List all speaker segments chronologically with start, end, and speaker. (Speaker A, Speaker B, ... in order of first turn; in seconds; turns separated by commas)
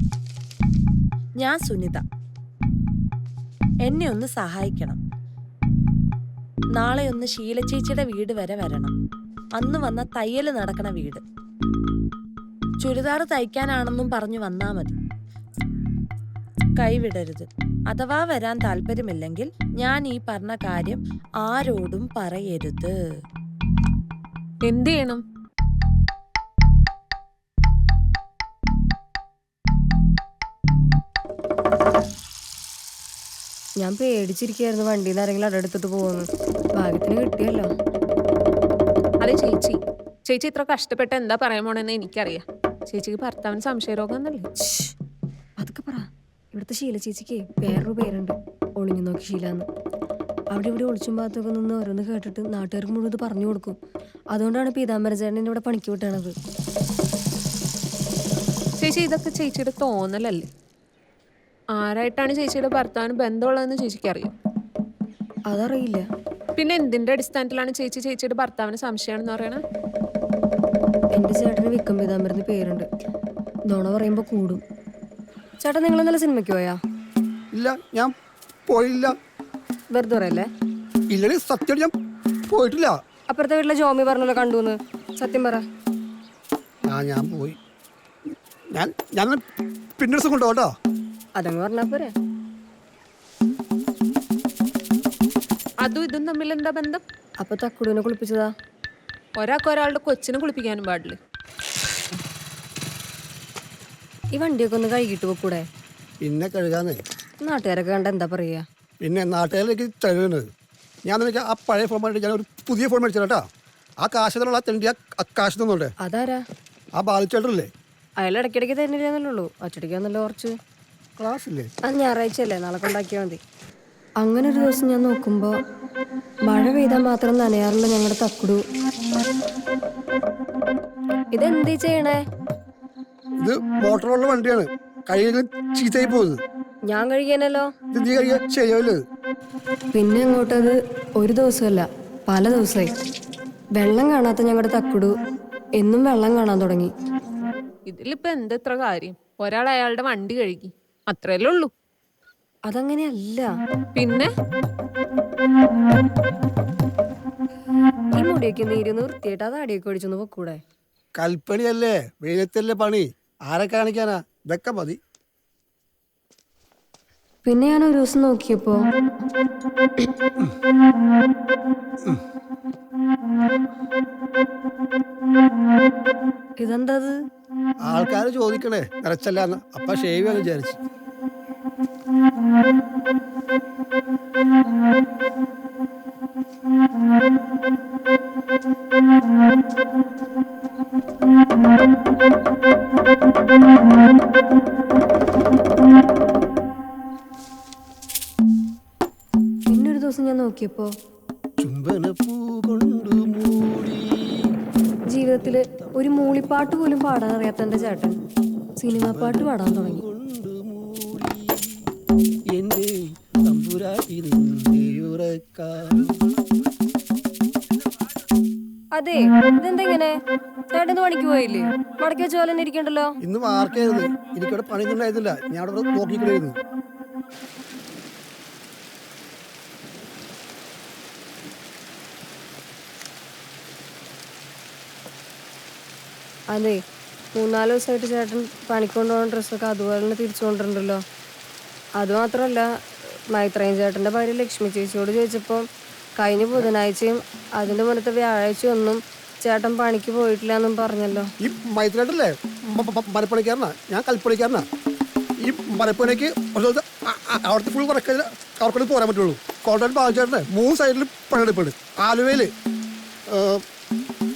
Speaker A: 1.4-2.0, Speaker A: 3.8-5.0, Speaker A: 6.7-8.9, Speaker A: 9.6-11.2, Speaker A: 12.8-15.0, Speaker A: 16.8-22.9, Speaker B: 24.6-25.2, Speaker C: 33.8-37.7, Speaker B: 39.2-44.5, Speaker C: 44.6-44.9, Speaker C: 45.6-49.6, Speaker C: 50.5-53.7, Speaker C: 54.3-56.3, Speaker B: 58.8-60.5, Speaker B: 61.7-64.3, Speaker C: 65.5-66.0, Speaker B: 66.5-69.6, Speaker C: 71.1-72.8, Speaker C: 73.7-74.6, Speaker C: 75.6-76.8, Speaker D: 77.5-78.1, Speaker D: 78.7-79.1, Speaker C: 79.9-80.5, Speaker D: 81.1-81.9, Speaker D: 82.5-83.0, Speaker C: 83.3-85.6, Speaker D: 86.9-87.5, Speaker D: 88.7-89.4, Speaker D: 90.0-90.7, Speaker C: 91.3-92.1, Speaker B: 95.8-97.0, Speaker C: 97.4-98.5, Speaker B: 99.4-101.2, Speaker C: 104.3-105.6, Speaker D: 106.2-107.0, Speaker C: 107.4-108.6, Speaker D: 109.0-110.5, Speaker D: 111.0-113.4, Speaker D: 114.0-115.9, Speaker C: 116.0-116.4, Speaker D: 117.0-117.7, Speaker C: 118.2-120.5, Speaker D: 121.2-121.7, Speaker C: 121.8-123.4, Speaker C: 124.2-125.5, Speaker C: 126.5-128.6, Speaker C: 131.3-132.2, Speaker D: 133.4-136.4, Speaker C: 136.9-137.7, Speaker D: 137.9-139.0, Speaker C: 139.9-142.9, Speaker C: 143.8-145.1, Speaker C: 145.8-146.9, Speaker B: 147.9-151.7, Speaker C: 152.7-153.5, Speaker B: 153.9-154.3, Speaker C: 158.1-160.6, Speaker D: 161.2-165.0, Speaker C: 167.4-168.8, Speaker C: 176.6-177.1, Speaker D: 177.8-180.8, Speaker C: 199.7-200.9, Speaker D: 201.6-204.5, Speaker C: 205.1-208.2, Speaker C: 208.8-210.0, Speaker D: 208.9-211.8, Speaker D: 212.5-216.2, Speaker C: 218.9-220.1, Speaker C: 220.7-223.2, Speaker D: 223.2-226.6, Speaker C: 236.5-236.8, Speaker C: 237.3-241.0, Speaker C: 242.0-242.7, Speaker C: 243.3-245.6, Speaker C: 246.2-251.3, Speaker D: 251.4-254.7, Speaker D: 255.4-262.5, Speaker D: 263.3-263.6